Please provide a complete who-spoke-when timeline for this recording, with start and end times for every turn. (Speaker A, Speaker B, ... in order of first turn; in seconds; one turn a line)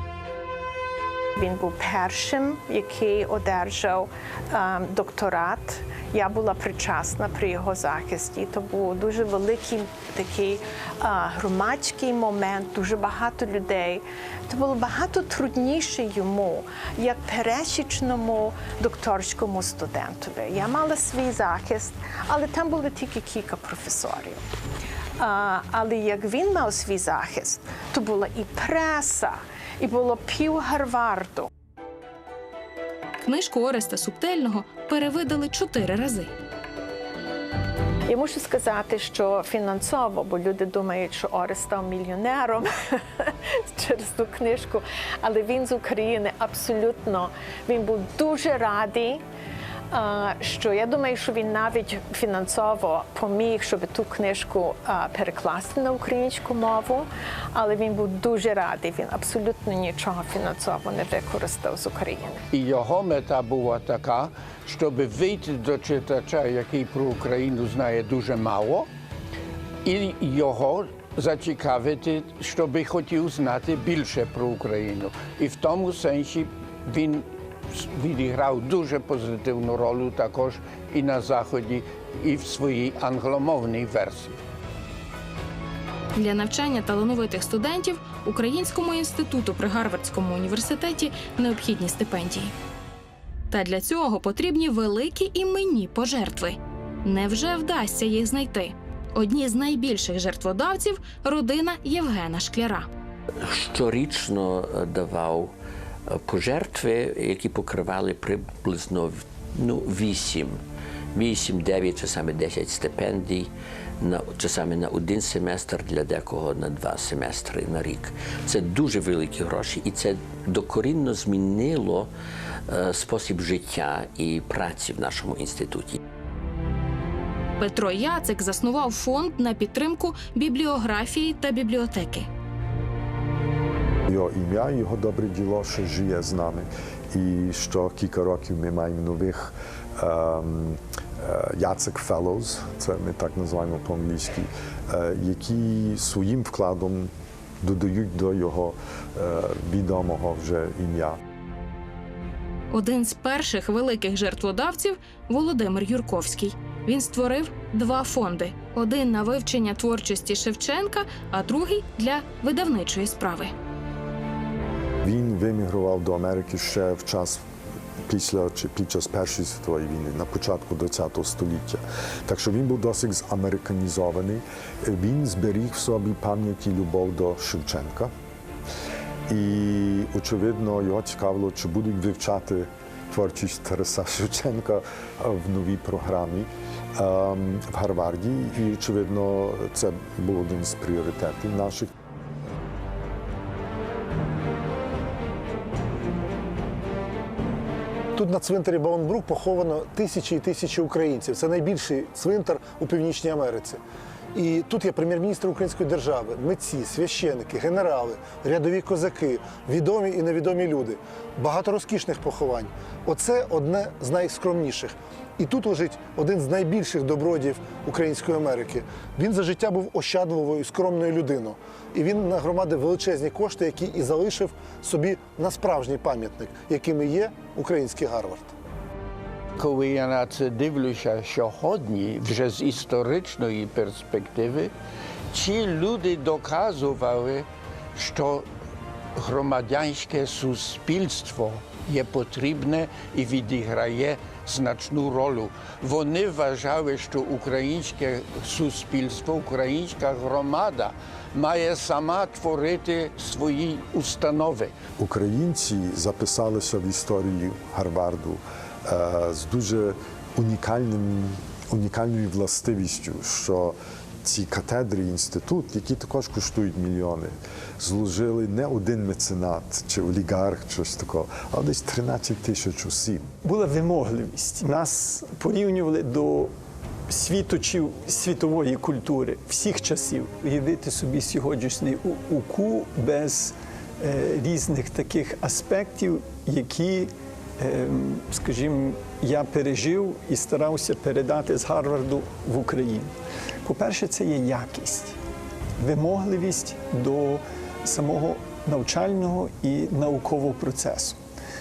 Speaker A: 1.4-24.4
Speaker A: 25.2-31.5
Speaker B: 33.2-36.3
Speaker A: 38.1-49.2
Speaker A: 49.9-62.4
Speaker C: 62.5-68.9
Speaker C: 69.8-84.4
Speaker B: 86.1-92.5
Speaker B: 93.5-102.9
Speaker D: 103.4-105.5
Speaker D: 106.1-110.6
Speaker D: 111.1-122.1
Speaker D: 122.7-126.0
Speaker B: 127.6-132.3
Speaker E: 134.1-151.2
Speaker B: 152.7-163.5
Speaker E: 165.0-167.4
Speaker E: 168.1-178.1
Speaker E: 179.3-191.9
Speaker F: 198.1-203.8
Speaker F: 204.3-228.5
Speaker C: 229.6-234.7
Speaker C: 235.3-238.5
Speaker C: 239.2-254.7
Speaker E: 255.0-273.3
Speaker G: 273.4-276.5
Speaker G: 277.1-293.1
Speaker G: 293.6-295.1
Speaker G: 295.8-301.2